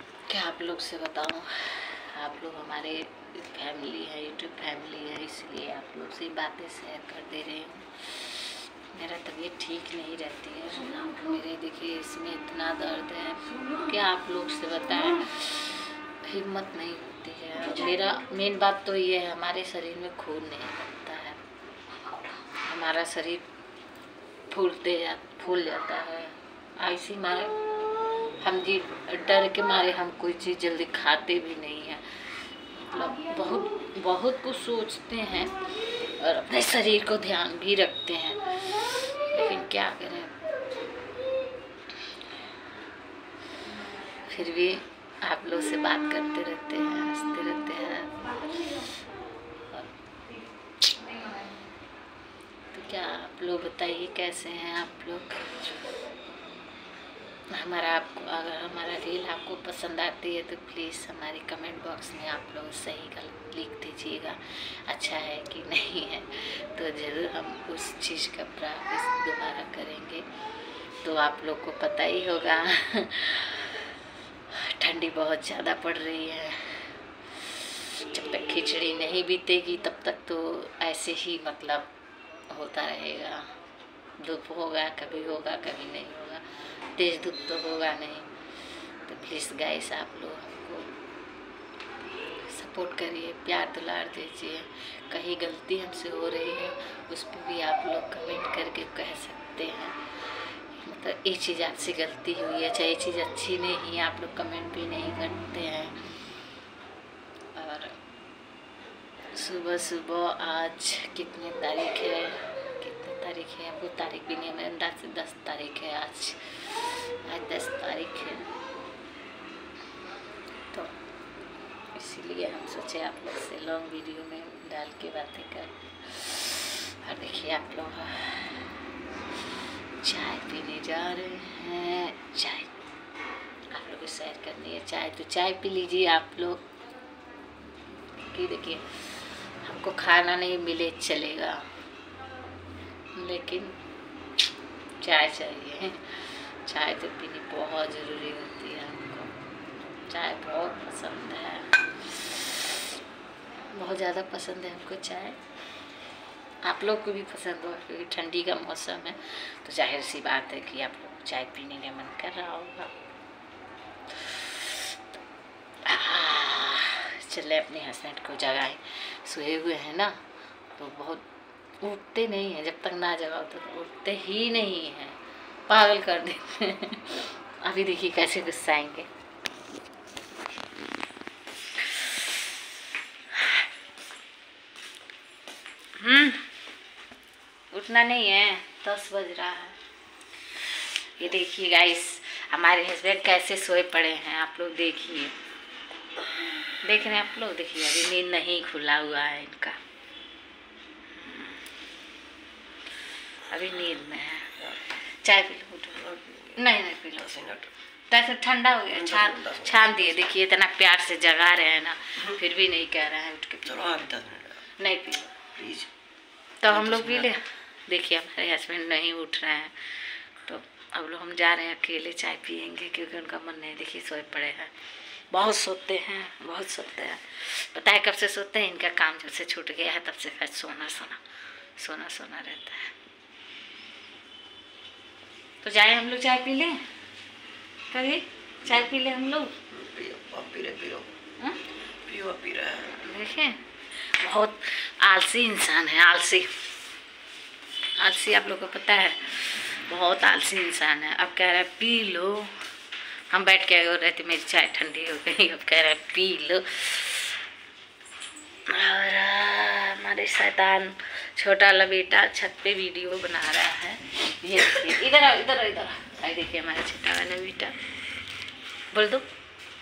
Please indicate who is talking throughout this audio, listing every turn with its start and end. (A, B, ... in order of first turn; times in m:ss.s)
0:00.3-0:21.4 A
0:22.5-0:23.4 A
0:24.5-0:27.6 A
0:28.4-0:40.3 A
0:44.2-0:48.9 A
0:52.7-0:55.7 A
0:57.5-1:10.2 A
1:11.0-1:13.9 A
1:14.5-1:21.9 A
1:22.5-1:23.4 A
1:24.2-1:28.3 A
1:29.0-1:30.9 A
1:32.4-1:40.0 A
1:40.8-1:46.0 A
1:47.6-1:47.9 A
1:49.3-1:58.5 A
2:01.9-2:08.7 A
2:10.0-2:12.7 A
2:13.7-2:16.6 A
2:18.3-2:21.6 A
2:23.2-2:23.8 A
2:25.0-2:29.3 A
2:29.9-2:32.8 A
2:33.7-2:35.4 A
2:36.6-2:42.9 A
2:44.2-2:45.0 A
2:45.8-2:50.2 A
2:50.8-2:51.2 A
2:51.8-2:59.1 A
3:06.0-3:06.5 A
3:07.7-3:09.8 A
3:11.2-3:15.4 A
3:16.8-3:19.8 A
3:21.1-3:21.6 A
3:23.5-3:27.5 A
3:27.3-3:27.7 B
3:28.1-3:34.1 A
3:29.0-3:29.7 B
3:33.7-3:34.6 B
3:34.8-3:35.3 A
3:35.6-3:35.9 B
3:36.6-3:44.7 A
3:36.8-3:37.3 B
3:45.3-3:51.2 A
3:51.8-3:52.9 A
3:55.6-3:56.8 A
3:57.9-3:59.5 A
3:59.7-4:01.1 B
4:02.0-4:02.9 B
4:02.8-4:06.5 A
4:08.0-4:12.5 A
4:13.3-4:17.4 A
4:18.7-4:27.8 A
4:28.9-4:29.2 A